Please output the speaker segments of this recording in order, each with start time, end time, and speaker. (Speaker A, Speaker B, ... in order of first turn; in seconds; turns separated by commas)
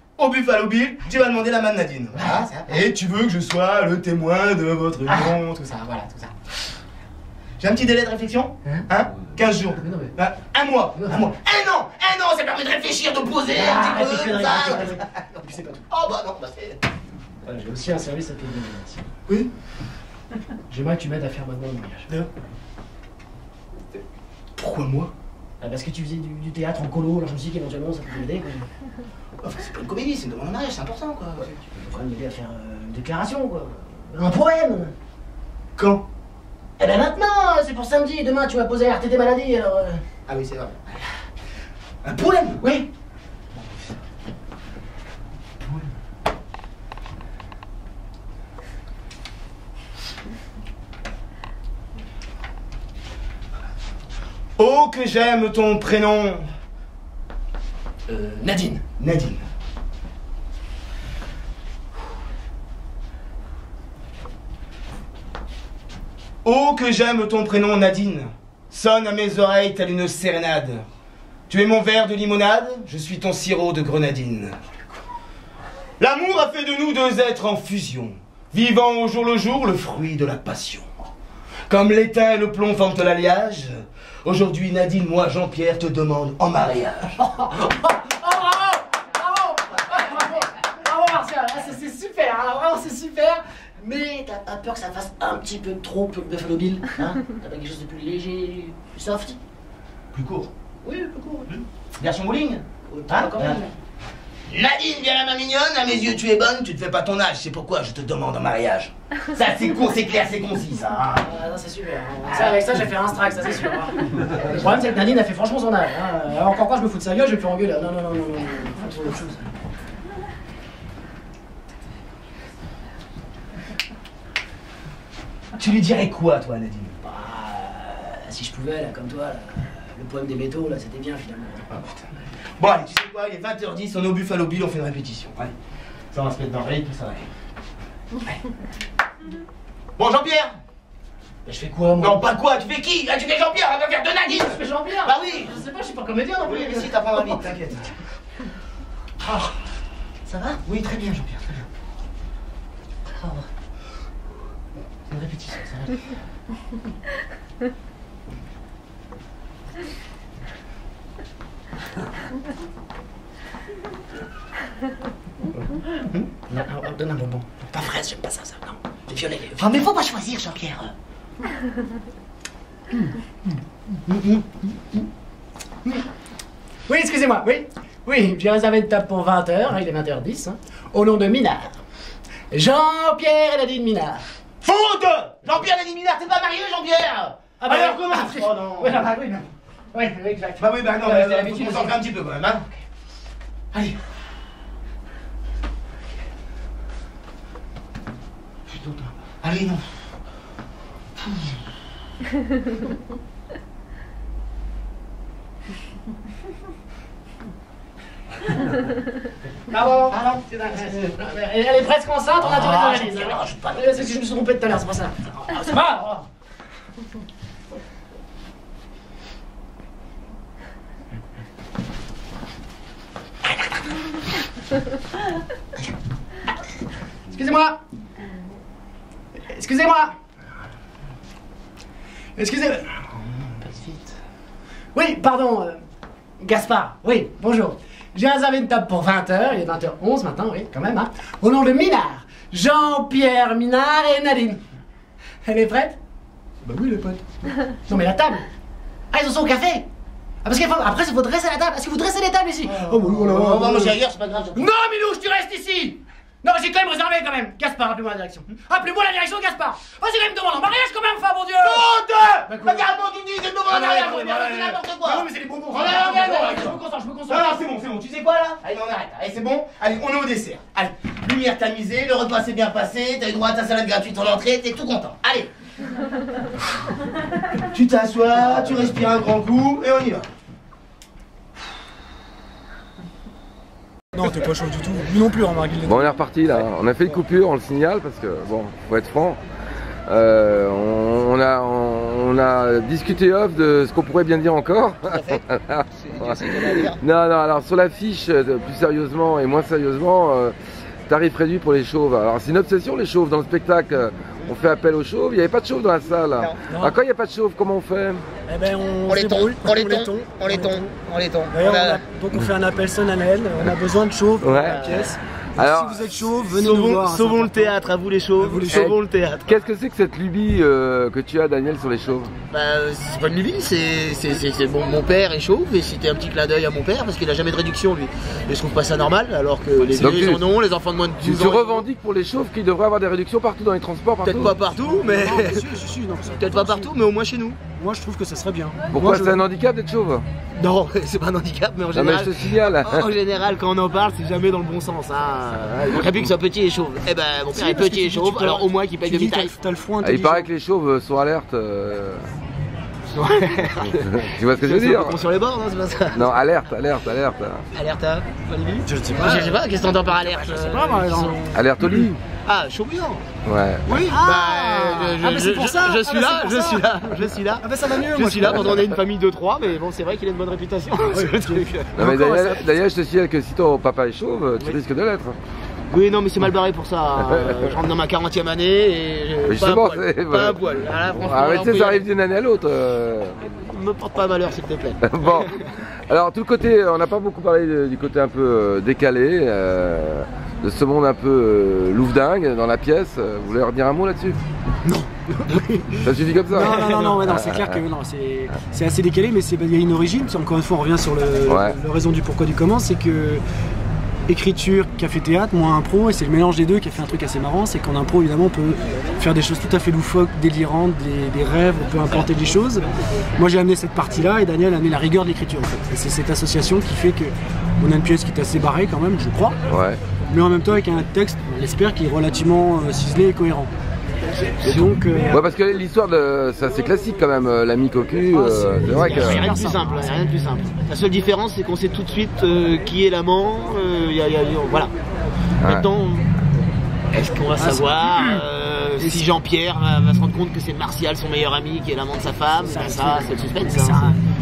Speaker A: 0.2-5.6, Speaker B: 2.2-2.8, Speaker B: 5.1-6.3, Speaker A: 7.6-15.0, Speaker B: 9.8-10.1, Speaker B: 10.9-11.3, Speaker B: 13.5-15.8, Speaker A: 15.9-16.8, Speaker B: 17.4-19.0, Speaker B: 20.7-22.1, Speaker A: 24.6-25.1, Speaker B: 25.6-28.7, Speaker A: 29.4-31.6, Speaker B: 31.7-34.9, Speaker A: 35.8-36.0, Speaker B: 36.8-40.0, Speaker A: 40.3-41.0, Speaker A: 42.0-42.6, Speaker B: 42.6-42.9, Speaker A: 45.6-45.9, Speaker A: 54.6-56.5, Speaker B: 58.1-58.8, Speaker A: 59.0-59.4, Speaker A: 66.4-70.8, Speaker A: 71.5-74.7, Speaker A: 76.0-80.9, Speaker A: 81.7-87.2, Speaker B: 87.2-99.4, Speaker A: 100.1-100.5, Speaker B: 100.8-101.5, Speaker A: 102.0-103.6, Speaker B: 102.9-103.7, Speaker A: 104.5-111.3, Speaker B: 111.1-119.5, Speaker A: 112.3-112.5, Speaker A: 125.5-126.9, Speaker B: 127.0-131.7, Speaker A: 132.6-135.5, Speaker A: 136.1-137.3, Speaker A: 140.0-140.6, Speaker B: 141.4-142.3, Speaker A: 142.0-145.6, Speaker B: 144.2-147.4, Speaker A: 146.4-148.0, Speaker B: 150.2-150.6, Speaker A: 150.6-151.7, Speaker B: 153.2-153.4, Speaker B: 155.1-155.9, Speaker B: 166.2-169.8, Speaker A: 169.6-170.9, Speaker B: 176.9-181.8, Speaker B: 182.5-184.2, Speaker A: 184.6-189.0, Speaker B: 187.6-192.0, Speaker A: 190.6-192.6, Speaker A: 198.7-199.9, Speaker B: 209.7-216.2, Speaker A: 210.1-210.4, Speaker A: 212.4-213.8, Speaker B: 227.3-227.8, Speaker B: 229.5-230.1, Speaker B: 232.3-233.0, Speaker A: 233.7-234.0, Speaker B: 234.9-235.8, Speaker B: 236.4-244.6, Speaker B: 245.4-246.0, Speaker B: 246.6-248.4, Speaker B: 249.1-249.8, Speaker B: 250.4-254.0, Speaker A: 252.7-254.6, Speaker C: 254.1-254.5, Speaker B: 254.5-261.9, Speaker A: 261.6-266.8, Speaker B: 262.4-262.9, Speaker B: 263.7-267.6, Speaker A: 267.3-275.5, Speaker A: 277.6-280.3, Speaker D: 284.1-286.1, Speaker E: 285.8-289.4, Speaker E: 290.1-300.5, Speaker C: 296.1-296.7, Speaker E: 301.1-308.2, Speaker D: 306.7-306.9, Speaker D: 308.5-310.9, Speaker C: 309.1-312.0, Speaker D: 311.5-317.8, Speaker E: 314.4-314.8, Speaker C: 314.5-315.2, Speaker E: 315.6-316.0, Speaker C: 316.4-319.6, Speaker D: 318.4-318.8, Speaker E: 318.7-322.3, Speaker C: 322.5-331.9, Speaker D: 329.8-330.1, Speaker E: 330.0-330.4, Speaker E: 331.2-334.6, Speaker C: 334.2-335.7, Speaker D: 334.5-336.9, Speaker C: 336.4-337.6, Speaker D: 337.7-339.4, Speaker E: 338.9-340.2, Speaker C: 340.6-349.6, Speaker E: 341.9-343.1, Speaker D: 347.5-350.5, Speaker E: 350.0-352.3, Speaker C: 353.1-356.3, Speaker E: 354.1-355.2, Speaker E: 356.1-357.6, Speaker C: 357.7-361.4, Speaker D: 358.9-359.6, Speaker D: 360.3-362.1, Speaker E: 361.5-362.1, Speaker C: 362.4-363.2, Speaker E: 363.4-363.9, Speaker D: 363.9-368.9, Speaker C: 364.1-372.6, Speaker D: 371.0-372.3, Speaker E: 371.9-375.4, Speaker C: 375.9-382.1, Speaker E: 377.2-377.7, Speaker E: 379.4-380.6, Speaker E: 381.1-383.4, Speaker C: 383.4-385.5, Speaker E: 385.0-385.5, Speaker E: 386.1-394.4, Speaker C: 394.9-397.3, Speaker E: 396.0-397.7, Speaker D: 396.5-403.4, Speaker E: 401.4-401.8, Speaker D: 404.3-412.8, Speaker D: 413.4-419.6, Speaker E: 419.7-420.0, Speaker D: 420.3-423.7, Speaker C: 424.6-424.9, Speaker D: 424.6-425.4, Speaker E: 425.3-429.4, Speaker C: 428.3-434.9, Speaker D: 428.9-430.1, Speaker E: 435.6-435.9, Speaker C: 435.6-436.3, Speaker C: 437.1-444.2, Speaker D: 437.6-438.4, Speaker D: 439.0-439.3, Speaker D: 442.5-444.2